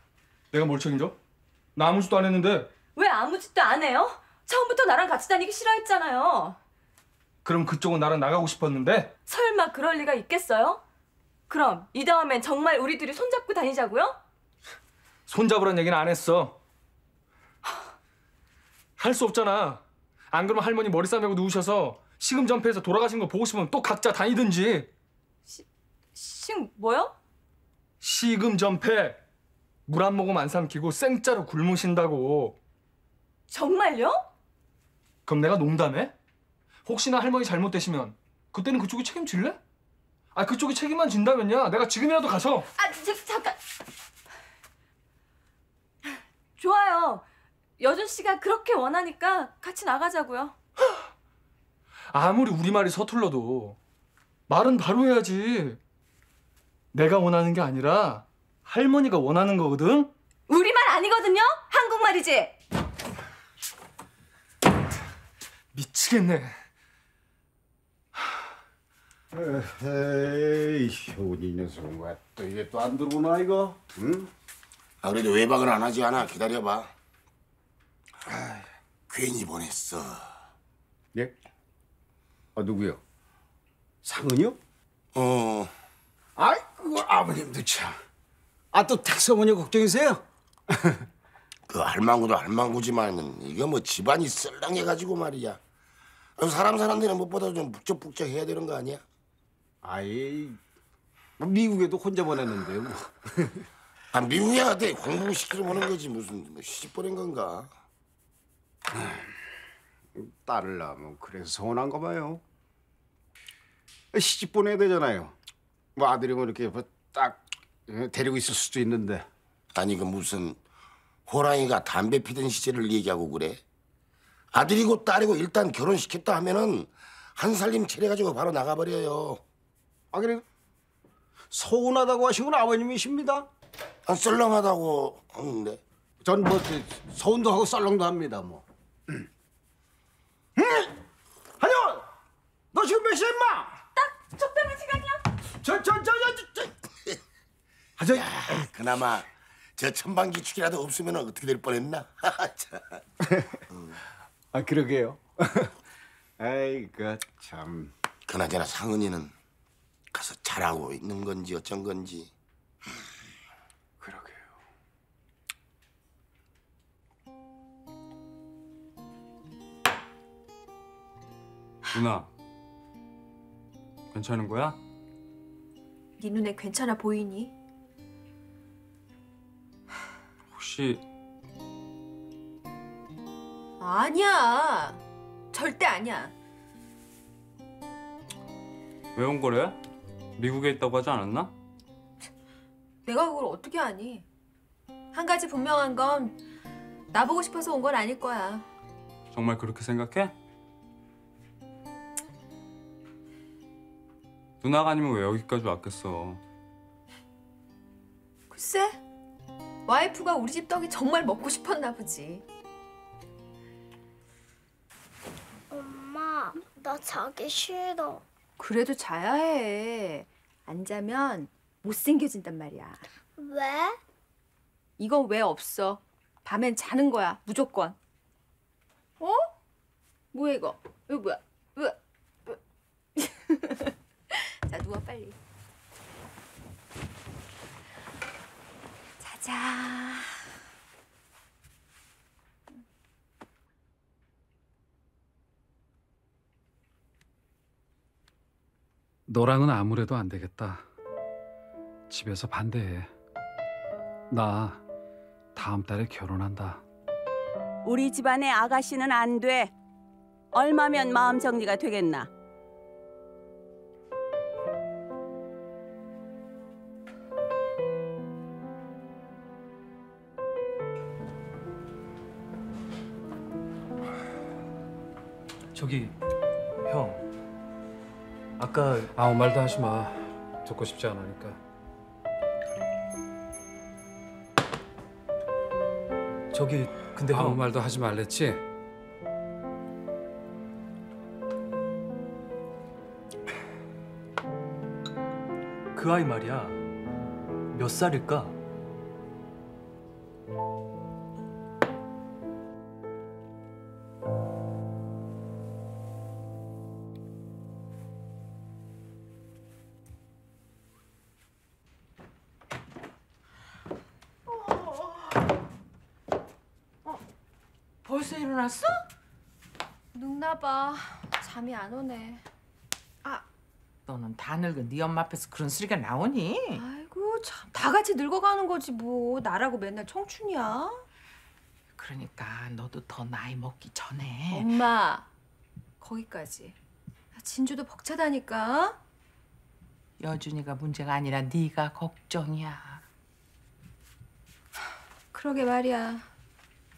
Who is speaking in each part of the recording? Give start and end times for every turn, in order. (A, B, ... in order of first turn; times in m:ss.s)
0:00.5-0:01.1 A
0:01.8-0:02.7 A
0:02.8-0:06.6 B
0:07.4-0:09.1 A
0:09.2-0:10.8 B
0:11.5-0:14.2 B
0:15.3-0:16.6 A
0:19.0-0:19.8 A
0:20.3-0:24.9 A
0:26.2-0:27.1 B
0:28.0-0:29.2 A
0:29.9-0:32.6 A
0:33.5-0:34.2 B
0:35.2-0:36.1 A
0:36.8-0:39.6 A
0:40.3-0:42.6 A
0:42.8-0:43.6 B
0:46.6-0:47.2 B
0:47.8-0:50.6 B
0:52.1-0:53.8 A
0:54.5-0:55.8 A
0:56.9-1:00.1 A
1:00.5-1:02.6 B
1:05.7-1:06.6 A
1:09.3-1:14.3 C
1:15.0-1:16.9 D
1:19.1-1:20.3 D
1:22.6-1:23.0 C
1:24.0-1:24.6 C
1:25.1-1:25.7 D
1:26.4-1:28.0 C
1:28.7-1:31.0 C
1:31.7-1:35.6 D
1:36.4-1:39.0 D
1:39.8-1:40.6 C
1:41.4-1:43.6 C
1:44.1-1:47.7 D
1:48.9-1:49.3 C
1:50.2-1:52.4 C
1:54.1-1:55.3 C
1:56.0-1:59.3 C
1:59.7-2:00.6 D
2:01.3-2:03.6 D
2:04.5-2:09.4 D
2:10.1-2:10.4 C
2:11.5-2:13.5 C
2:14.1-2:15.8 D
2:16.2-2:19.2 C
2:20.6-2:20.9 C
2:21.6-2:22.0 C
2:22.7-2:23.7 C
2:24.0-2:25.2 B
2:25.6-2:26.7 C
2:28.0-2:28.7 C
2:28.1-2:33.0 D
2:33.7-2:34.0 D
2:34.5-2:35.7 C
2:36.4-2:37.9 C
2:38.2-2:39.3 D
2:40.1-2:42.3 D
2:44.0-2:44.5 C
2:51.9-2:52.3 E
2:54.1-2:54.8 E
2:56.2-2:57.5 F
3:00.5-3:01.0 E
3:03.8-3:05.0 F
3:05.5-3:06.3 F
3:09.1-3:09.8 E
3:10.4-3:11.5 E
3:13.0-3:14.2 F
3:15.1-3:16.4 F
3:17.1-3:18.6 F
3:19.3-3:20.3 E
3:24.6-3:26.4 E
3:28.5-3:29.0 F
3:29.8-3:32.4 F
3:35.7-3:38.2 G
3:38.6-3:43.0 F
3:43.4-3:44.0 G
3:45.0-3:48.0 F
3:49.2-3:49.5 F
3:50.3-3:52.6 F
3:53.2-3:55.4 F
3:59.2-4:00.4 F
4:09.3-4:10.8 H
4:12.1-4:13.1 H
4:14.3-4:14.8 H
4:15.5-4:16.8 H
4:17.8-4:19.7 I
4:20.5-4:22.3 I
4:35.7-4:36.2 J
4:36.8-4:37.2 J
4:38.6-4:39.1 J
4:39.1-4:41.6 H
4:46.5-4:47.6 J
4:47.2-4:48.6 H
4:55.9-4:56.8 J
4:57.7-4:58.6 J
5:18.0-5:18.9 K
5:20.1-5:22.4 F
5:24.1-5:26.6 K
5:26.8-5:31.0 F
5:32.0-5:34.4 K
5:34.5-5:35.3 F
5:36.0-5:36.8 F
5:37.3-5:39.0 F
5:40.2-5:43.0 K
5:45.3-5:46.2 F